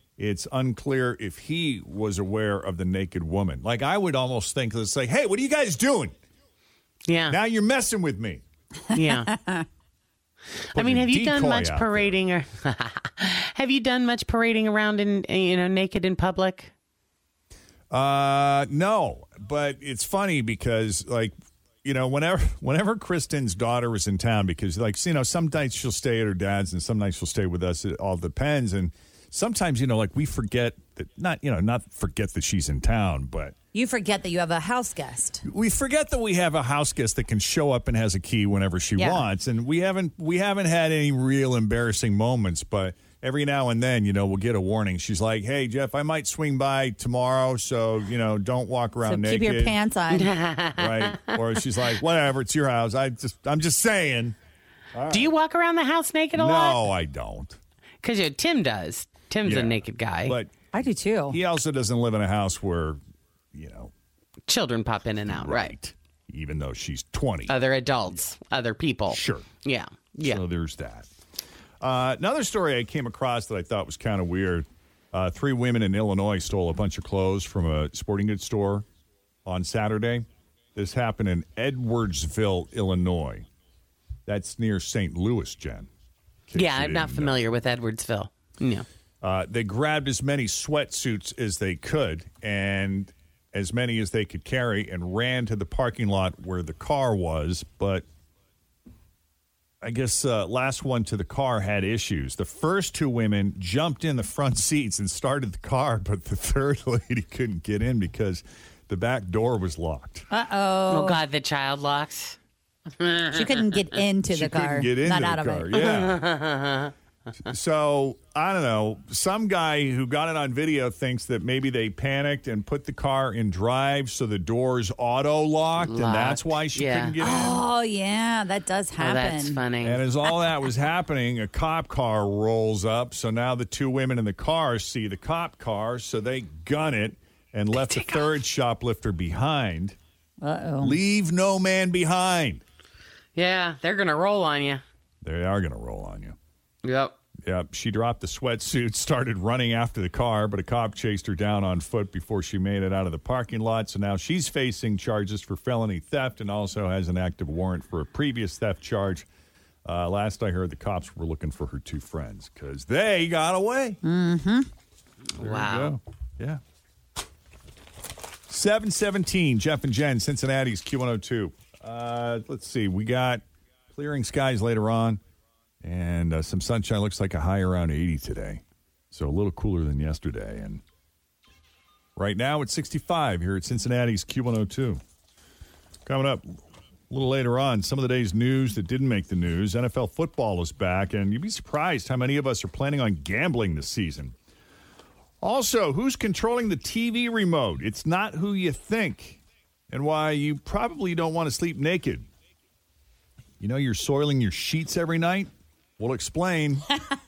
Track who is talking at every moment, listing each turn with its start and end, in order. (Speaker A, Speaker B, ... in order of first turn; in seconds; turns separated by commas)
Speaker A: 0.2-6.1, Speaker B: 7.1-7.4, Speaker A: 7.3-8.4, Speaker C: 8.9-9.6, Speaker B: 8.9-9.3, Speaker B: 10.7-16.7, Speaker A: 10.7-12.2, Speaker A: 17.9-33.5, Speaker C: 33.7-35.4, Speaker A: 35.5-49.8, Speaker C: 39.0-39.2, Speaker C: 49.0-50.3, Speaker B: 50.1-51.4, Speaker A: 50.8-54.4, Speaker A: 54.9-55.3, Speaker B: 55.1-56.8, Speaker A: 56.4-57.6, Speaker B: 58.0-60.4, Speaker A: 59.4-60.6, Speaker C: 60.7-61.4, Speaker A: 61.3-63.0, Speaker A: 63.5-63.9, Speaker B: 64.5-65.7, Speaker A: 65.3-67.5, Speaker B: 67.5-70.4, Speaker A: 69.1-69.5, Speaker A: 70.2-71.1, Speaker A: 71.8-78.8, Speaker A: 79.4-83.5, Speaker A: 84.2-85.9, Speaker A: 86.5-87.4, Speaker B: 86.5-88.8, Speaker A: 89.2-98.0, Speaker A: 99.8-110.2, Speaker C: 110.3-111.2, Speaker B: 110.9-112.3, Speaker B: 113.0-113.8, Speaker C: 113.3-115.8, Speaker A: 114.3-116.3, Speaker B: 115.7-116.9, Speaker A: 117.5-127.6, Speaker B: 125.8-127.2, Speaker C: 127.2-129.6, Speaker B: 129.0-130.0, Speaker A: 129.8-139.9, Speaker B: 137.8-138.3, Speaker C: 140.4-141.0, Speaker A: 140.8-142.6, Speaker B: 143.3-144.8, Speaker A: 145.2-146.3, Speaker B: 146.8-147.1, Speaker A: 147.4-159.2, Speaker A: 159.8-164.0, Speaker C: 164.0-164.7, Speaker B: 165.3-165.9, Speaker A: 165.4-166.6, Speaker A: 168.5-175.2, Speaker A: 175.8-180.8, Speaker A: 182.2-185.0, Speaker A: 186.1-186.6, Speaker A: 187.1-194.3, Speaker A: 195.4-202.2, Speaker A: 203.6-206.8